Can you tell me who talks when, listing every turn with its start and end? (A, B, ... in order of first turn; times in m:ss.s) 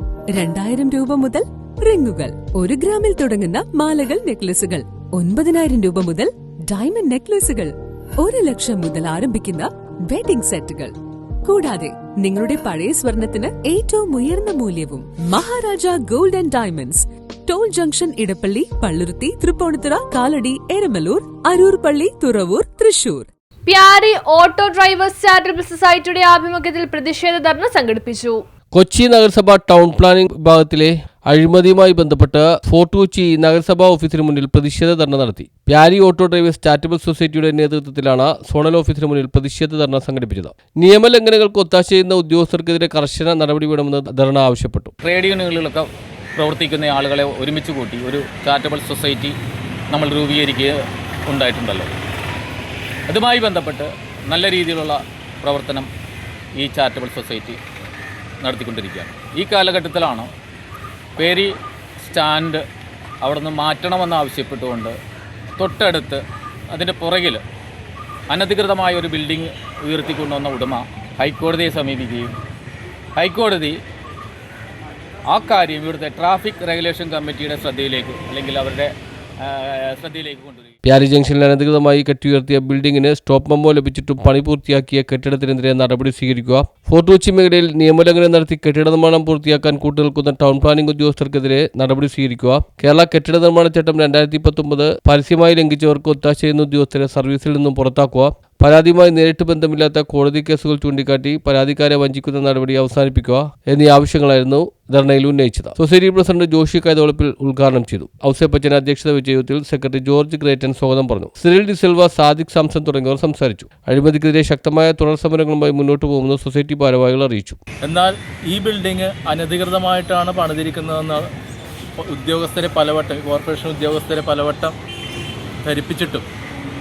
0:00.3-0:23.3 A
0:23.6-0:28.4 B
0:28.7-0:44.9 C
0:45.0-0:49.4 D
0:49.9-0:50.8 D
0:51.3-0:51.9 D
0:53.1-0:55.9 D
0:56.6-0:57.6 D
0:58.4-1:00.3 D
1:01.2-1:02.6 D
1:03.2-1:05.0 D
1:05.6-1:07.4 D
1:08.3-1:12.3 D
1:13.2-1:13.8 D
1:15.3-1:20.7 D
1:20.8-1:57.6 C
1:57.8-2:01.2 E
2:02.0-2:04.7 E
2:05.6-2:06.2 E